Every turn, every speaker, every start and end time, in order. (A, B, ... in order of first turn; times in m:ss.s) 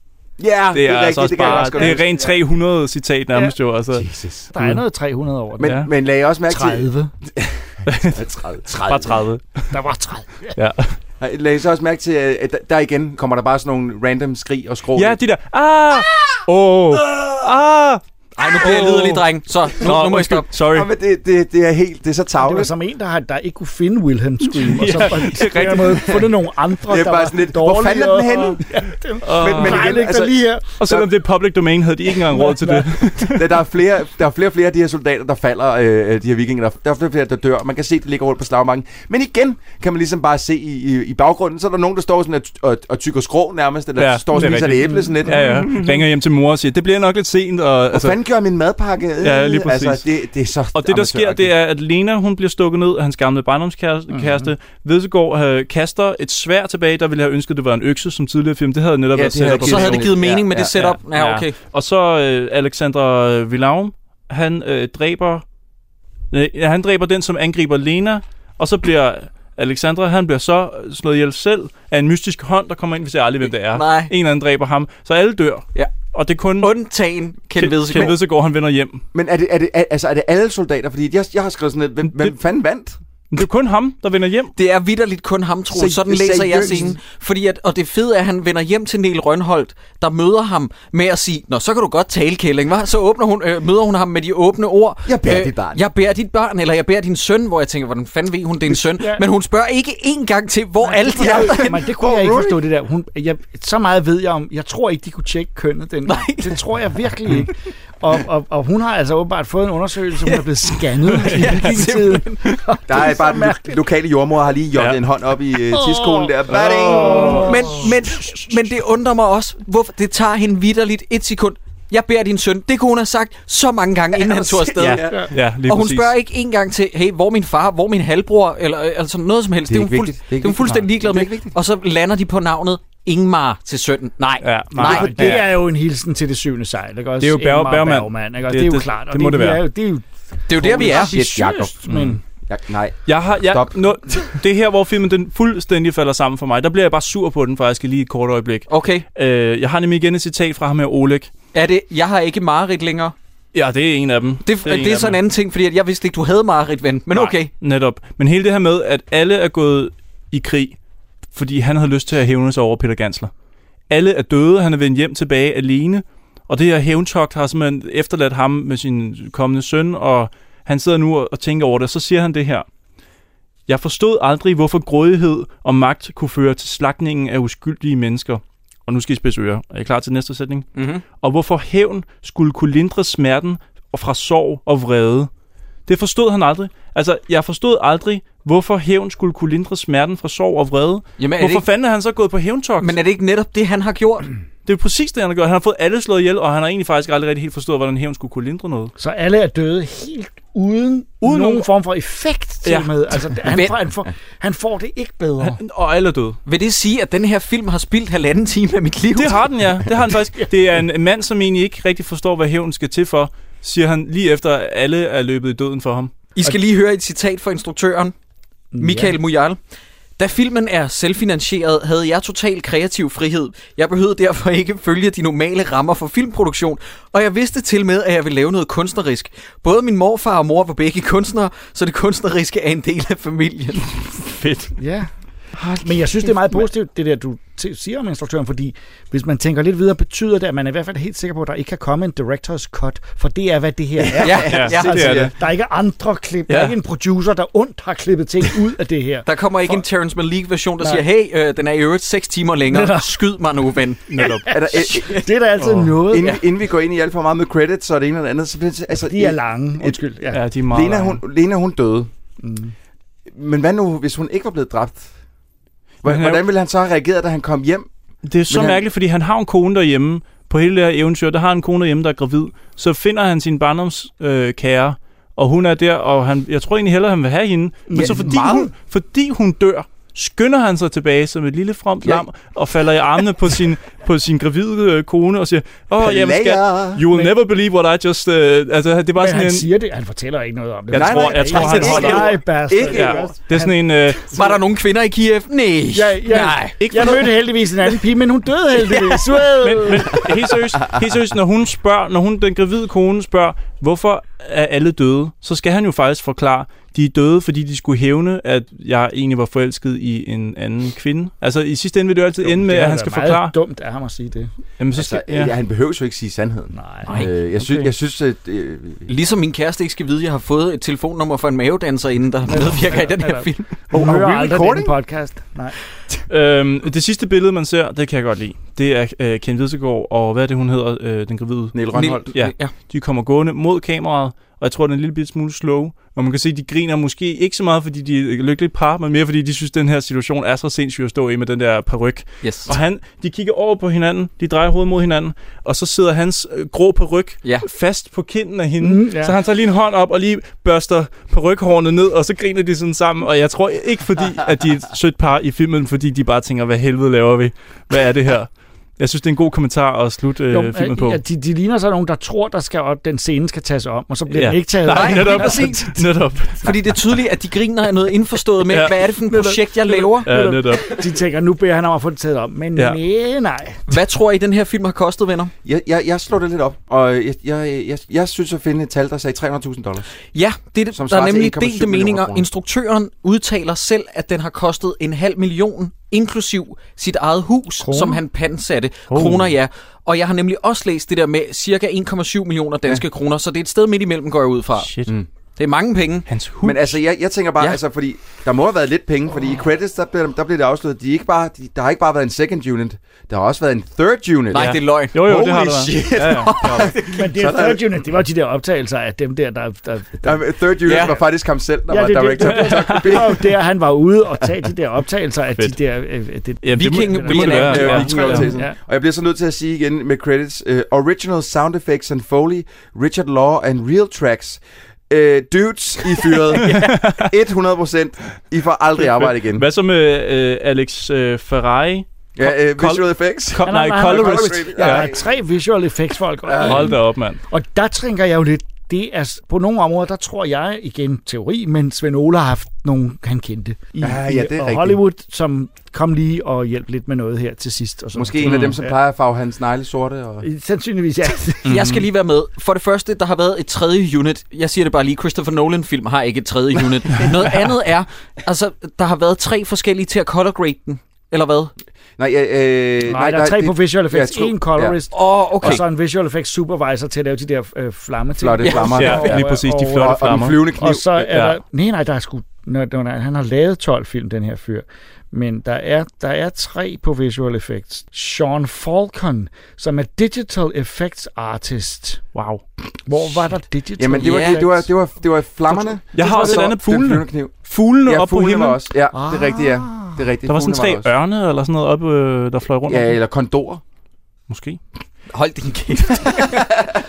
0:00.4-0:02.3 A
0:00.7-0:04.1 B
0:01.4-0:02.3 C
0:03.9-0:04.5 A
0:04.5-0:05.8 C
0:05.6-0:09.2 A
0:05.6-0:05.9 B
0:06.5-0:07.1 C
0:07.9-0:08.2 B
0:08.8-0:09.7 B
0:09.7-0:10.6 C
0:10.6-0:11.0 B
0:11.2-0:15.2 A
0:15.0-0:20.9 B
0:18.4-0:20.5 D
0:20.7-0:22.7 A
0:22.4-0:30.7 C
0:24.4-0:26.3 B
0:26.9-0:28.6 A
0:29.2-0:30.0 B
0:29.3-0:31.1 A
0:30.8-0:33.6 B
0:32.2-0:32.9 C
0:33.4-0:46.0 A
0:44.0-0:48.2 B
0:44.4-0:45.7 C
0:47.9-0:51.5 A
0:49.2-0:50.0 B
0:50.7-1:05.4 B
0:54.1-0:54.5 C
0:59.1-1:00.7 A
0:59.6-1:01.6 D
1:06.3-1:16.7 B
1:13.7-1:14.1 D
1:16.6-1:18.2 D
1:17.6-1:19.0 B
1:19.1-1:23.0 A
1:22.1-1:22.3 B
1:23.3-1:24.5 B
1:24.6-1:41.8 D
1:25.7-1:27.0 A
1:35.0-1:35.8 A
1:39.0-1:39.3 C
1:40.8-1:53.8 C
1:41.2-1:42.6 A
1:46.1-1:46.6 D
1:51.0-1:52.4 D
1:51.3-1:51.8 B
1:52.9-1:57.8 A
1:55.7-1:57.9 C
1:56.5-1:57.5 B
1:57.2-2:05.0 D
2:04.2-2:05.3 A
2:04.8-2:06.2 B
2:05.7-2:15.4 D
2:09.7-2:11.6 A
2:14.4-2:15.5 B
2:14.8-2:22.2 C
2:17.2-2:19.6 B
2:20.5-2:21.3 D
2:20.6-2:24.0 A
2:21.9-2:22.2 B
2:23.1-2:31.3 B
2:28.7-2:29.0 D
2:31.5-2:33.2 D
2:33.5-2:35.2 B
2:34.4-2:37.5 D
2:37.1-2:40.8 B
2:41.3-2:43.3 B
2:43.9-2:52.7 B
2:53.7-3:00.7 B
3:00.8-3:01.0 D
3:01.2-3:05.3 B
3:05.9-3:13.0 B
3:11.2-3:11.6 D
3:12.8-3:14.3 D
3:14.7-3:18.9 B
3:19.0-3:25.6 C
3:21.2-3:21.7 B
3:22.6-3:22.9 B
3:23.5-3:23.7 D
3:25.4-3:26.4 B
3:26.5-3:29.4 D
3:29.2-3:36.1 B
3:36.4-3:38.1 D
3:38.7-3:39.2 C
3:38.8-3:39.6 D
3:40.2-3:53.9 D
3:54.1-3:54.7 B
3:54.8-4:09.8 C
4:04.0-4:05.3 A
4:04.2-4:05.0 D
4:04.4-4:05.3 B
4:06.5-4:06.8 B
4:09.2-4:14.2 D
4:10.8-4:11.1 C
4:12.7-4:13.3 C
4:14.1-4:14.5 B
4:14.2-4:16.4 C
4:14.5-4:15.3 A
4:14.8-4:15.3 D
4:15.6-4:15.9 B
4:16.0-4:20.0 A
4:18.9-4:20.4 C
4:20.3-4:21.2 B
4:20.7-4:22.1 A
4:22.4-4:22.7 C
4:23.3-4:25.1 A
4:26.0-4:27.9 A
4:26.0-4:26.4 B
4:28.2-4:49.7 B
4:28.5-4:28.8 A
4:37.9-4:38.6 C
4:37.9-4:38.7 A
4:46.0-4:47.1 A
4:49.2-4:53.8 C
4:50.9-4:54.3 B
4:50.9-4:53.4 A
4:54.3-4:56.8 D
4:55.9-5:00.3 C
4:56.8-4:57.4 B
4:59.6-5:13.6 B
5:12.4-5:14.5 C
5:14.8-5:15.5 B
5:14.9-5:19.1 A
5:16.7-5:17.8 C
5:19.1-5:23.7 D
5:22.5-5:25.8 C
5:23.9-5:25.0 A
5:26.3-5:31.8 B
5:31.7-5:32.3 A
5:31.9-5:32.7 D
5:32.3-6:01.2 B
5:42.4-5:42.8 D
5:48.8-5:49.4 C
6:00.5-6:06.0 C
6:04.3-6:06.7 B
6:04.9-6:05.9 D
6:06.6-6:10.3 D
6:08.7-6:08.9 B
6:09.3-6:13.8 C
6:10.2-6:11.0 B
6:13.9-6:15.5 D
6:15.6-6:20.1 A
6:20.3-6:34.9 D
6:20.9-6:22.5 A
6:27.8-6:28.2 C
6:29.1-6:29.5 B
6:34.8-6:35.1 B
6:35.6-6:36.3 D
6:36.3-6:37.0 B
6:36.6-6:47.9 A
6:44.5-6:45.2 D
6:44.5-6:46.9 B
6:46.3-6:47.2 D
6:47.1-6:51.2 C
6:50.2-6:53.5 A
6:50.9-6:51.2 D
6:51.9-6:58.8 C
6:52.4-6:53.3 B
6:56.6-6:58.5 B
6:56.7-6:58.4 D
6:57.5-7:09.7 A
7:06.5-7:07.3 B
7:06.6-7:06.9 D
7:09.0-7:15.1 B
7:12.4-7:15.2 A
7:13.6-7:29.0 C
7:16.4-7:17.0 A
7:16.6-7:17.4 B
7:24.0-7:25.0 A
7:28.1-7:30.5 A
7:28.4-7:28.8 B
7:30.4-7:31.7 C
7:31.7-7:41.7 D
7:31.7-7:32.0 B
7:42.2-7:45.0 A
7:43.1-8:02.2 C
7:45.1-7:45.8 D
7:48.4-7:51.1 A
7:48.6-7:49.3 D
7:48.9-7:51.6 B
8:02.4-8:02.6 B
8:03.1-8:04.9 C
8:04.0-8:11.1 A
8:04.2-8:04.6 D
8:06.1-8:08.8 B
8:06.2-8:06.7 C
8:09.1-8:10.2 C
8:10.5-8:13.2 B
8:12.9-8:13.8 A
8:14.5-8:14.8 B
8:15.3-8:16.6 D